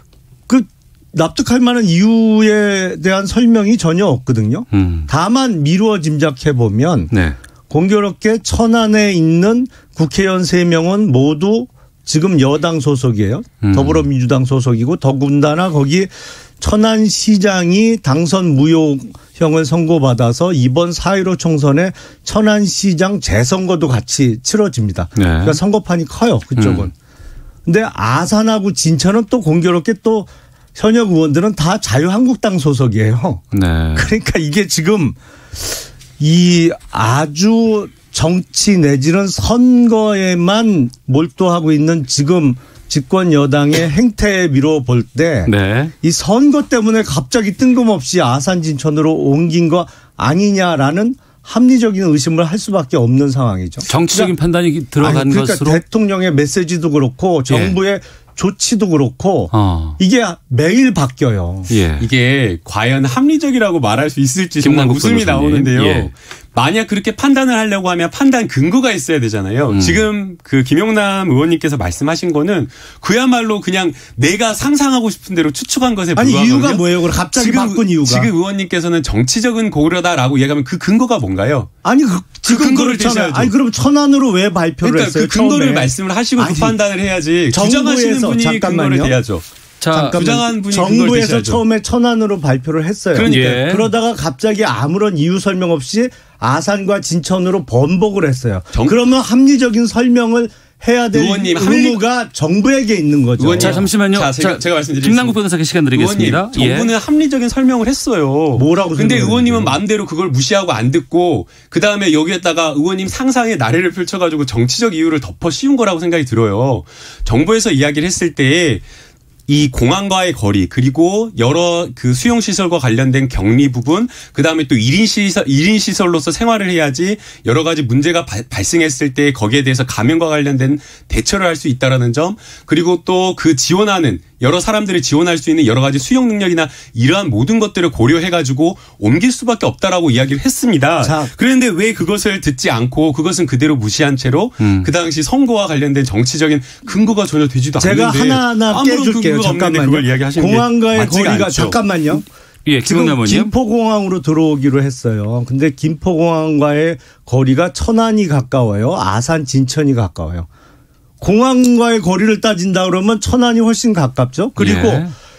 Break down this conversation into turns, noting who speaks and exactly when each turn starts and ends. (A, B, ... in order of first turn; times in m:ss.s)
0:00.5-0:07.1 A
0:04.7-0:05.1 B
0:07.1-0:07.4 B
0:07.7-0:26.9 A
0:13.6-0:14.1 B
0:25.2-0:25.6 B
0:26.6-0:26.9 B
0:27.7-0:33.4 A
0:33.5-0:34.1 B
0:34.0-0:54.4 A
0:45.5-0:45.9 B
0:53.9-0:55.8 B
0:55.0-1:01.7 A
0:57.5-0:57.8 B
0:59.5-1:00.0 B
1:01.7-1:02.1 B
1:02.0-1:21.7 C
1:04.6-1:06.1 B
1:09.7-1:10.1 B
1:16.2-1:18.3 A
1:21.8-1:26.8 A
1:22.4-1:23.5 C
1:24.8-1:31.6 C
1:27.5-1:29.2 A
1:29.8-1:30.2 B
1:30.0-1:43.8 A
1:33.1-1:33.6 C
1:33.2-1:33.9 B
1:41.1-1:42.0 C
1:43.4-1:45.4 C
1:43.6-1:46.9 B
1:45.9-1:58.8 C
1:48.6-1:49.8 A
1:59.5-2:31.8 C
2:21.0-2:21.3 A
2:24.6-2:24.9 B
2:27.8-2:32.3 A
2:32.7-2:33.5 B
2:32.8-2:40.5 A
2:41.2-2:45.1 A
2:44.6-2:45.1 B